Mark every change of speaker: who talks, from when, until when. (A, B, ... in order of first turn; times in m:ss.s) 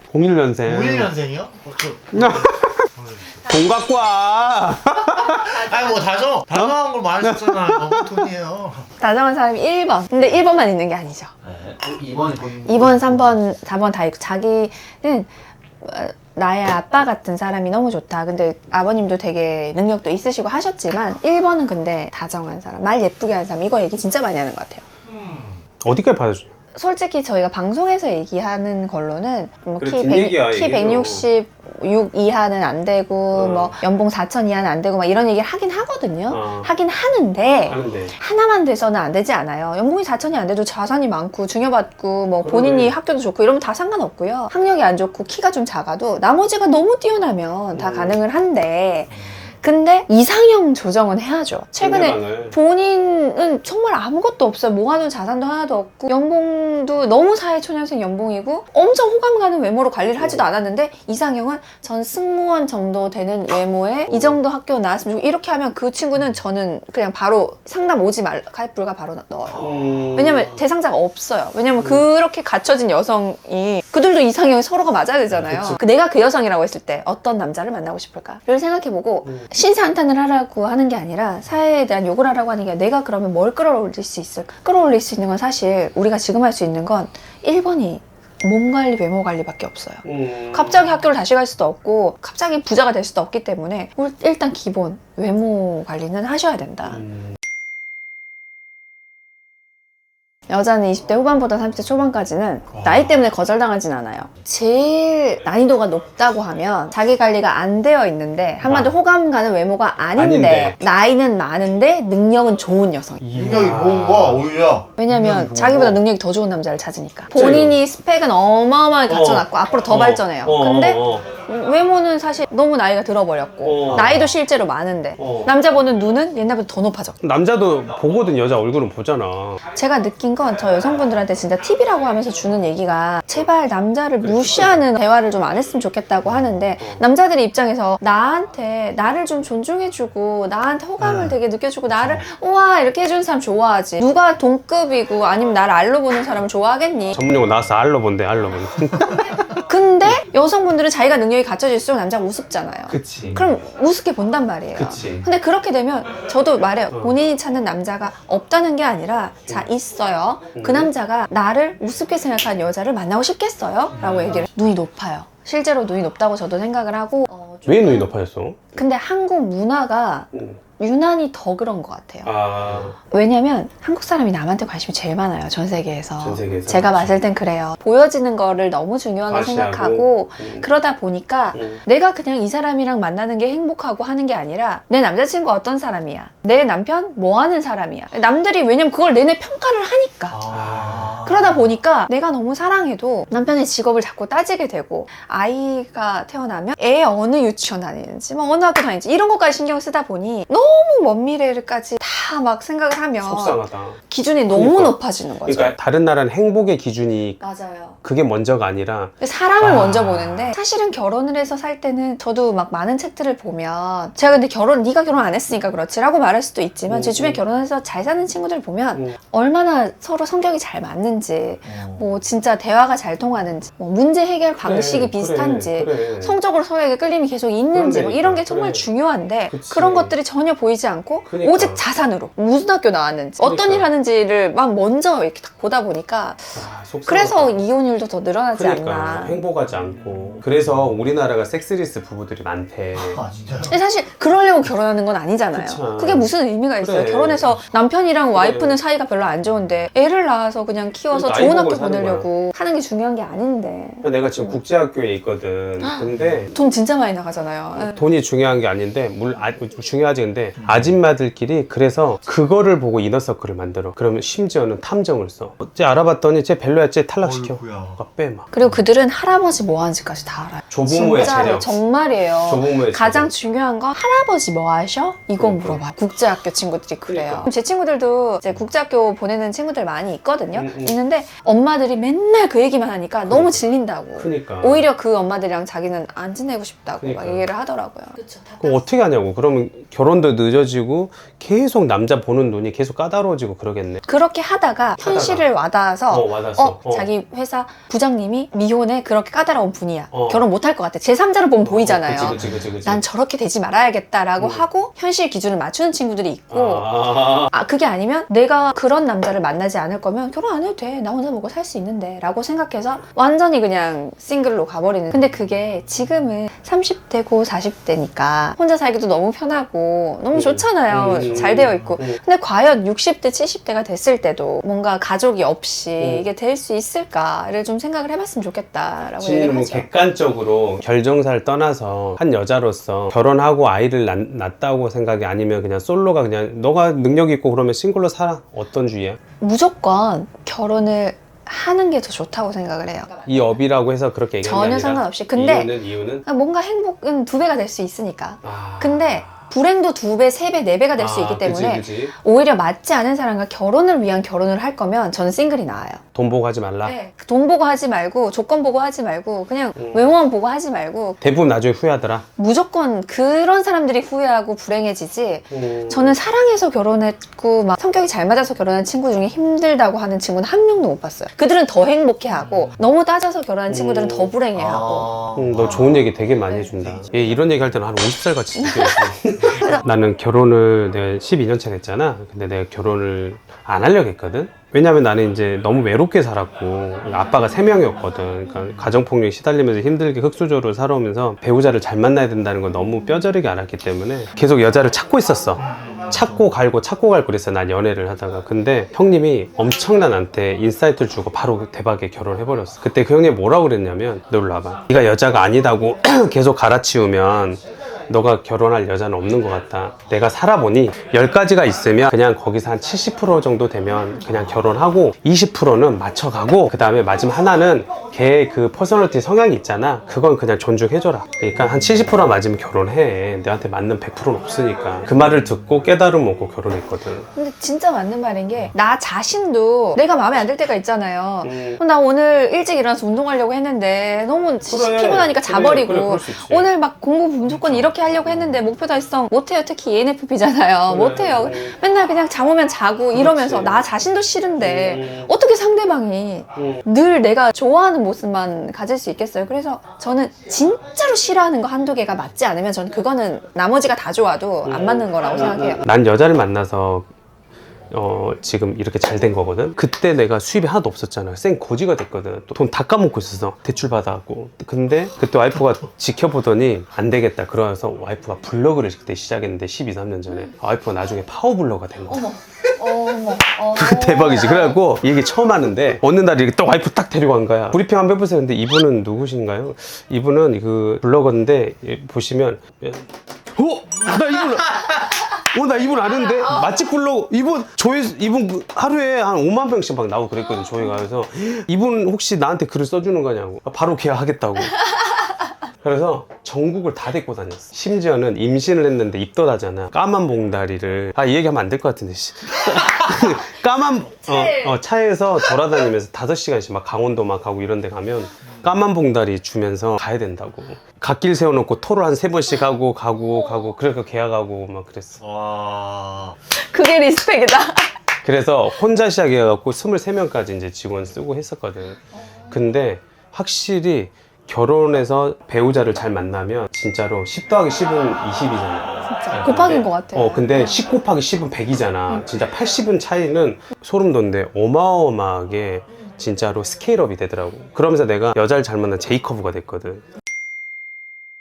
0:00.1-0:01.1 A
0:00.6-0:03.4 B
0:02.1-0:02.9 A
0:03.4-0:05.7 A
0:05.2-0:06.0 C
0:05.5-0:08.9 B
0:07.2-0:08.0 A
0:09.0-0:11.3 C
0:11.4-0:13.4 B
0:12.6-0:15.3 C
0:15.8-0:24.8 C
0:25.1-0:25.6 B
0:25.8-0:26.5 A
0:26.7-1:37.0 C
0:29.8-0:31.3 A
0:33.3-0:33.7 A
0:36.3-0:36.7 A
0:37.7-0:38.1 A
0:42.4-0:43.0 A
0:47.7-0:48.2 A
0:49.1-0:49.5 B
0:51.8-0:52.6 A
1:00.2-1:00.4 A
1:04.1-1:04.4 A
1:09.6-1:10.6 A
1:15.3-1:15.8 A
1:30.0-1:30.8 A
1:36.9-1:37.3 A
1:40.5-1:53.2 C
1:42.7-1:43.3 B
1:48.6-1:48.9 A
1:50.2-1:50.8 A
1:53.2-1:54.5 A
1:53.3-1:55.9 B
1:55.0-2:07.2 C
1:55.6-1:56.0 A
1:57.3-1:57.8 A
1:59.1-2:01.3 A
2:03.6-2:04.3 A
2:05.2-2:05.5 A
2:07.2-2:09.6 A
2:09.7-2:27.3 C
2:14.2-2:14.8 A
2:22.0-2:22.2 B
2:27.1-2:29.4 A
2:29.7-2:48.1 C
2:32.9-2:33.4 A
2:34.7-2:35.3 A
2:36.9-2:37.2 A
2:40.6-2:40.9 A
2:44.0-2:44.4 B
2:44.0-2:44.4 A
2:47.7-2:48.7 A
2:48.8-2:52.3 C
2:50.3-2:50.6 A
2:52.2-2:53.0 A
2:53.0-3:10.4 C
2:56.2-2:57.2 A
2:59.3-3:00.7 A
3:01.5-3:01.8 A
3:10.3-3:11.7 B
3:10.5-3:11.2 A
3:11.2-3:25.8 C
3:23.2-3:24.0 A
3:24.5-3:27.4 A
3:27.4-3:28.0 C
3:28.0-3:29.1 A
3:29.2-3:59.4 C
3:29.6-3:30.5 B
3:36.9-3:37.4 A
3:41.6-3:42.2 B
3:44.6-3:46.4 A
3:47.7-3:48.9 A
3:49.5-3:50.2 A
3:51.3-3:51.8 A
3:53.4-3:53.9 A
3:56.6-3:57.6 A
3:58.5-4:03.2 A
4:00.0-4:00.4 B
4:02.9-4:03.8 B
4:03.7-4:14.6 C
4:05.5-4:07.6 A
4:08.3-4:08.8 A
4:11.1-4:12.3 A
4:14.0-4:16.5 A
4:15.8-4:18.1 C
4:17.7-4:28.5 A
4:20.6-4:21.0 B
4:27.2-4:28.0 B
4:28.5-4:48.8 C
4:30.7-4:31.8 A
4:32.4-4:33.3 A
4:35.4-4:35.8 A
4:37.1-4:37.5 A
4:40.5-4:41.0 A
4:43.3-4:43.6 A
4:44.2-4:44.9 A
4:47.0-4:47.5 A
4:48.6-4:54.0 A
4:54.0-5:29.9 C
4:55.0-4:55.5 A
4:56.1-4:57.1 A
5:00.1-5:00.4 A
5:01.6-5:03.0 A
5:02.3-5:02.6 B
5:04.4-5:04.6 A
5:06.5-5:07.5 A
5:20.3-5:22.2 A
5:21.1-5:22.0 B
5:26.0-5:26.3 A
5:29.2-5:39.2 A
5:39.4-5:43.6 C
5:43.3-5:46.3 A
5:44.4-5:56.0 C
5:48.4-5:49.5 A
5:51.0-5:52.1 A
5:56.1-5:57.0 A
5:56.8-6:01.2 C
5:59.8-6:00.2 A
6:01.2-6:02.3 A
6:02.4-6:15.9 C
6:05.5-6:06.2 A
6:12.4-6:12.8 B
6:13.7-6:14.3 A
6:14.6-6:16.1 B
6:15.4-7:07.3 A
6:16.5-6:16.9 C
6:16.8-6:17.1 B
6:18.6-6:19.8 C
6:35.6-6:36.5 B
7:07.3-7:35.8 C
7:11.4-7:11.8 A
7:14.6-7:16.7 A
7:17.5-7:18.6 A
7:20.9-7:21.7 A
7:23.1-7:23.8 A
7:24.6-7:25.3 A
7:26.6-7:26.8 A
7:34.6-7:37.1 A
7:37.9-7:52.3 A
7:52.1-7:54.8 C
7:53.7-8:14.8 A
8:06.2-8:06.7 C
8:10.6-8:11.0 C
8:15.8-8:35.2 A
8:24.0-8:24.8 C
8:33.2-8:33.7 C
8:35.2-8:36.4 B
8:36.5-8:37.9 C
8:38.2-9:00.0 A
8:42.2-8:42.6 C
8:49.0-8:50.8 C